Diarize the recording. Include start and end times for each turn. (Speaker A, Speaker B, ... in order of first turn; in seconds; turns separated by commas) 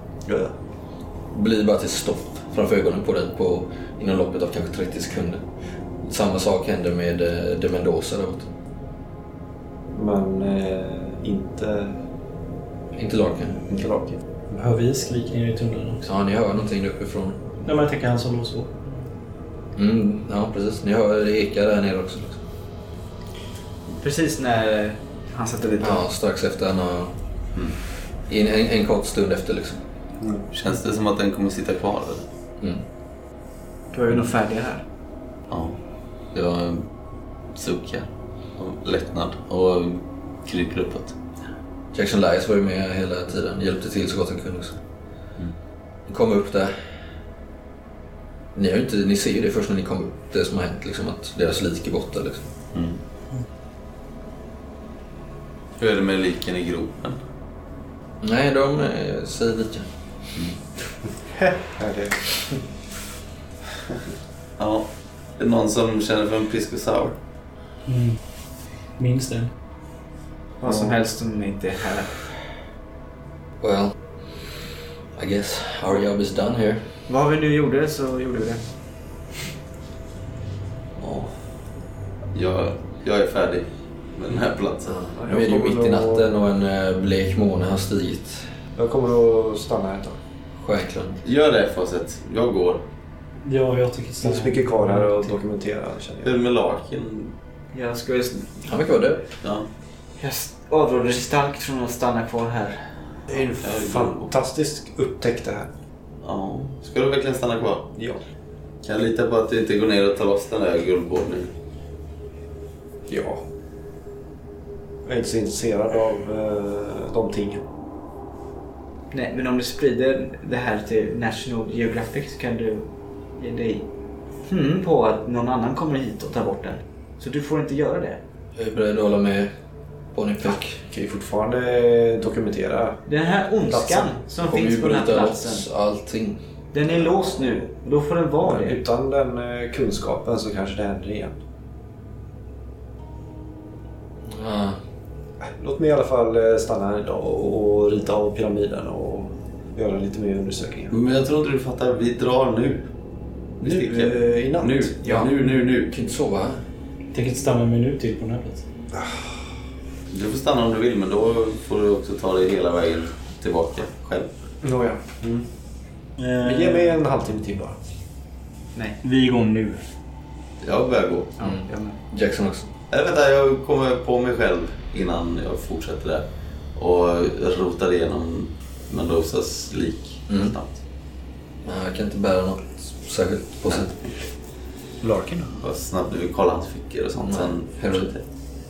Speaker A: 0.3-0.5, Speaker B: 1.3-5.4, Speaker B: 6.0-8.5, Speaker A: 9.9-12.0, Speaker B: 12.9-13.6, Speaker A: 13.7-14.2, Speaker C: 14.5-16.1, Speaker B: 16.0-17.4, Speaker C: 17.6-18.9, Speaker B: 19.8-22.4, Speaker D: 24.0-26.0, Speaker B: 25.8-27.2, Speaker B: 28.3-29.8, Speaker E: 30.5-32.2, Speaker D: 33.9-34.8, Speaker E: 35.5-35.8, Speaker E: 36.3-36.9, Speaker E: 37.5-41.2, Speaker B: 41.9-44.8, Speaker B: 46.1-46.7, Speaker B: 48.5-52.5, Speaker E: 52.7-53.0, Speaker E: 55.8-57.2, Speaker B: 58.2-59.9, Speaker A: 61.4-62.3, Speaker E: 64.6-67.2, Speaker C: 67.9-68.2, Speaker C: 69.0-69.5, Speaker D: 70.6-72.2, Speaker B: 73.6-74.0, Speaker B: 75.2-76.9, Speaker D: 77.1-78.6, Speaker E: 81.0-81.3, Speaker E: 82.3-85.0, Speaker B: 84.8-88.4, Speaker A: 85.2-86.3, Speaker A: 88.8-90.2, Speaker B: 90.6-91.2, Speaker E: 91.2-92.8, Speaker C: 93.4-95.4, Speaker A: 94.2-96.4, Speaker E: 96.2-97.3, Speaker D: 97.7-98.7, Speaker B: 98.7-99.2, Speaker E: 99.4-99.7, Speaker D: 100.2-102.8, Speaker A: 103.3-105.7, Speaker E: 103.3-104.3, Speaker E: 106.2-107.9, Speaker A: 107.9-108.2, Speaker E: 108.8-111.5, Speaker A: 113.1-113.4, Speaker A: 115.0-117.6, Speaker D: 119.1-123.9, Speaker D: 124.5-128.2, Speaker B: 128.6-129.5, Speaker B: 130.1-130.8, Speaker A: 130.4-133.0, Speaker D: 133.1-135.7, Speaker A: 133.7-134.1, Speaker B: 134.5-136.4, Speaker D: 136.7-138.8, Speaker A: 138.4-141.4, Speaker B: 144.2-144.8, Speaker A: 145.6-150.9, Speaker E: 150.9-152.9, Speaker E: 153.6-155.9, Speaker A: 153.6-155.0, Speaker D: 155.0-155.3, Speaker B: 155.9-156.6, Speaker C: 157.1-158.6, Speaker E: 160.1-164.3, Speaker A: 164.6-165.5, Speaker C: 166.2-167.0, Speaker A: 166.4-167.8, Speaker C: 169.0-169.8, Speaker E: 170.6-171.3, Speaker D: 171.4-171.9, Speaker B: 171.4-172.7, Speaker E: 172.9-180.8, Speaker B: 180.3-180.5, Speaker B: 181.6-183.9, Speaker C: 185.0-185.5, Speaker E: 185.6-188.2, Speaker B: 187.2-188.1